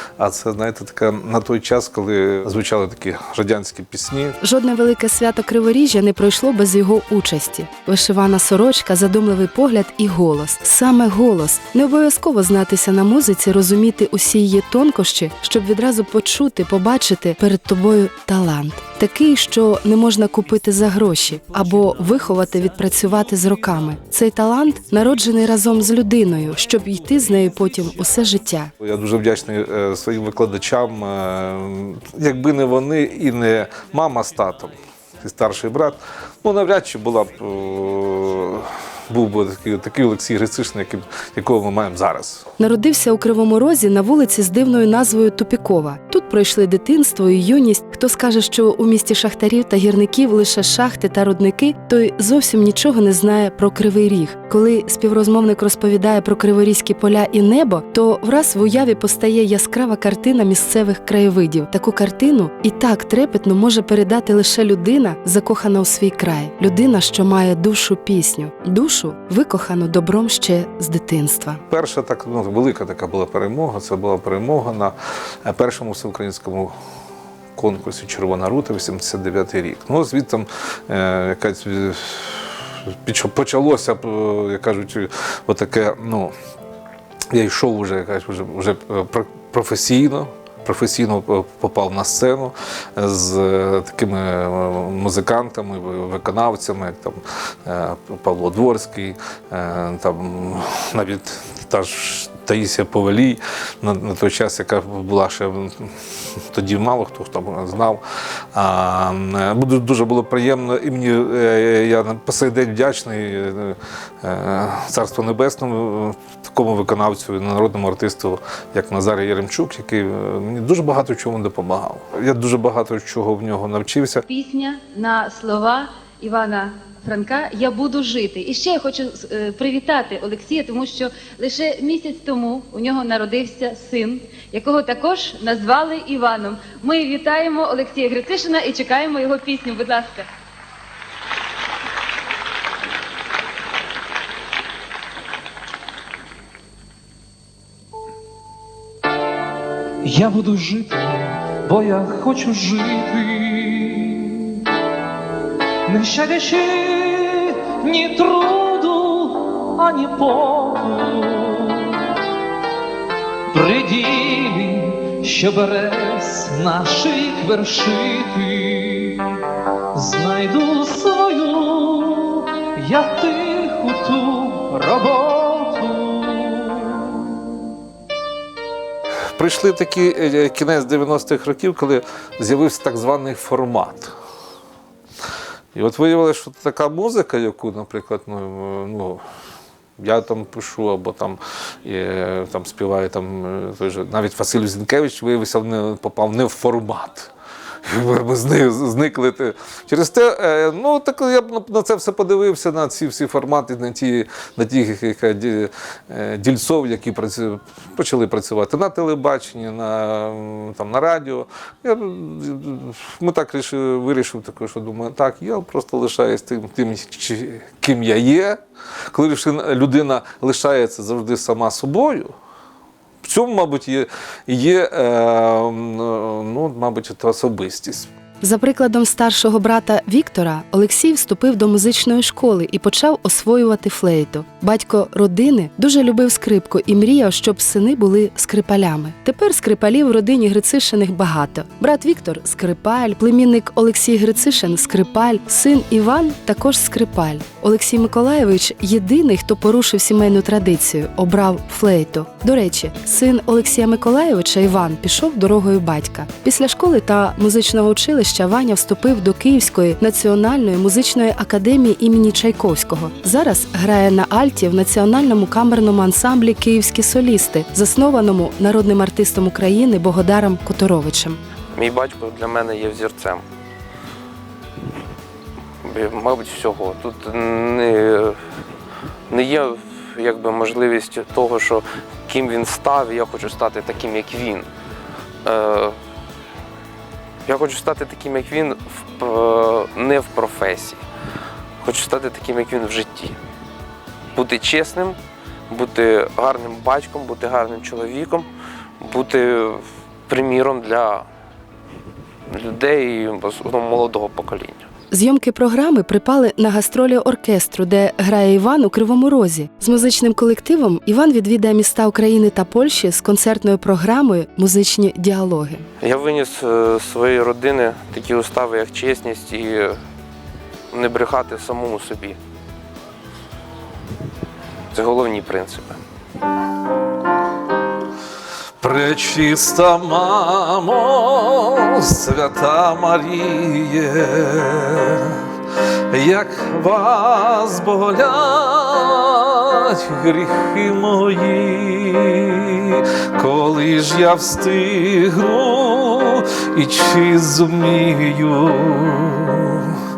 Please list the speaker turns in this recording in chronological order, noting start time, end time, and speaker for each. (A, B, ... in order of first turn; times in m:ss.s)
0:00.2-0:04.4 A
0:04.4-0:28.7 B
0:28.8-0:42.4 A
0:42.6-1:11.6 B
1:11.7-1:16.7 A
1:17.6-1:26.3 A
1:27.3-1:45.9 A
1:46.5-1:48.0 A
1:48.5-2:04.2 A
2:04.3-2:20.3 C
2:30.0-2:33.9 D
2:35.9-2:41.4 D
2:43.5-2:49.1 D
2:50.0-2:56.6 D
2:59.4-3:04.1 A
3:05.7-3:09.2 A
3:10.0-3:17.3 A
3:17.8-3:38.6 A
3:39.1-3:42.3 A
3:43.2-3:48.1 A
3:48.4-4:31.4 B
4:31.7-4:33.4 E
4:35.8-4:38.4 E
4:39.3-4:44.7 E
4:45.4-4:46.0 E
4:47.4-4:51.0 E
4:51.8-4:53.4 E
4:54.3-4:55.2 E
4:55.7-4:58.5 E
4:59.0-5:01.2 E
5:02.5-5:04.8 E
5:05.1-5:15.8 B
5:16.0-5:20.0 E
5:20.9-5:22.4 E
5:24.9-5:26.0 E
5:28.8-5:35.4 A
5:36.1-5:50.0 A